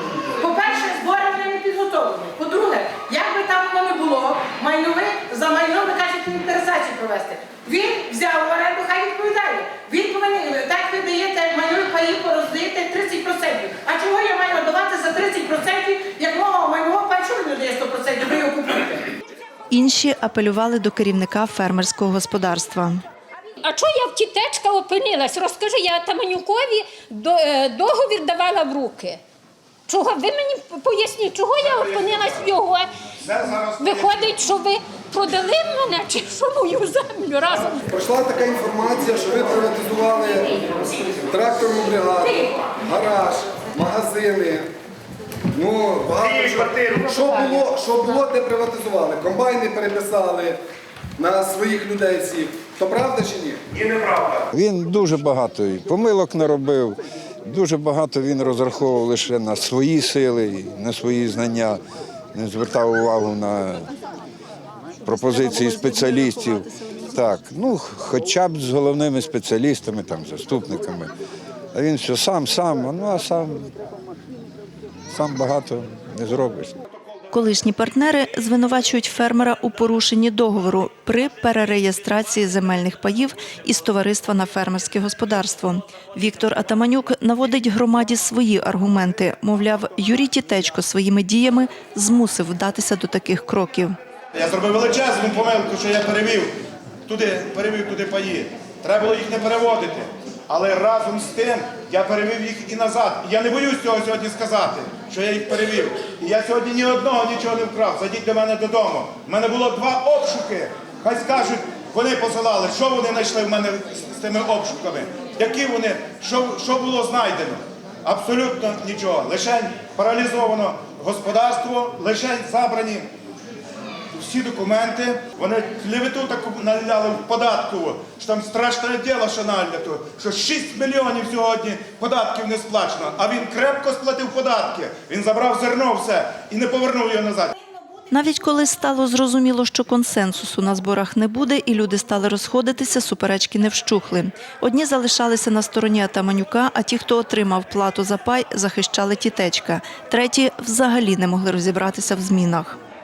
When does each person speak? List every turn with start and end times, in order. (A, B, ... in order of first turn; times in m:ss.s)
0:00.3-0:19.1 A
0:19.7-0:23.0 B
0:23.6-0:29.2 C
0:29.9-0:32.9 C
0:31.6-0:32.4 D
0:33.2-0:34.3 D
0:33.8-0:37.8 C
0:37.9-0:44.7 E
0:45.5-0:50.6 E
0:46.2-0:47.2 D
0:51.2-0:53.6 E
0:53.7-0:54.5 D
0:54.5-1:01.8 F
1:02.3-1:03.9 F
1:05.0-1:11.1 F
1:11.7-1:13.7 F
1:15.1-1:16.8 F
1:17.3-1:34.0 B
1:34.3-2:03.1 D
2:04.1-2:17.5 D
2:18.1-2:32.8 B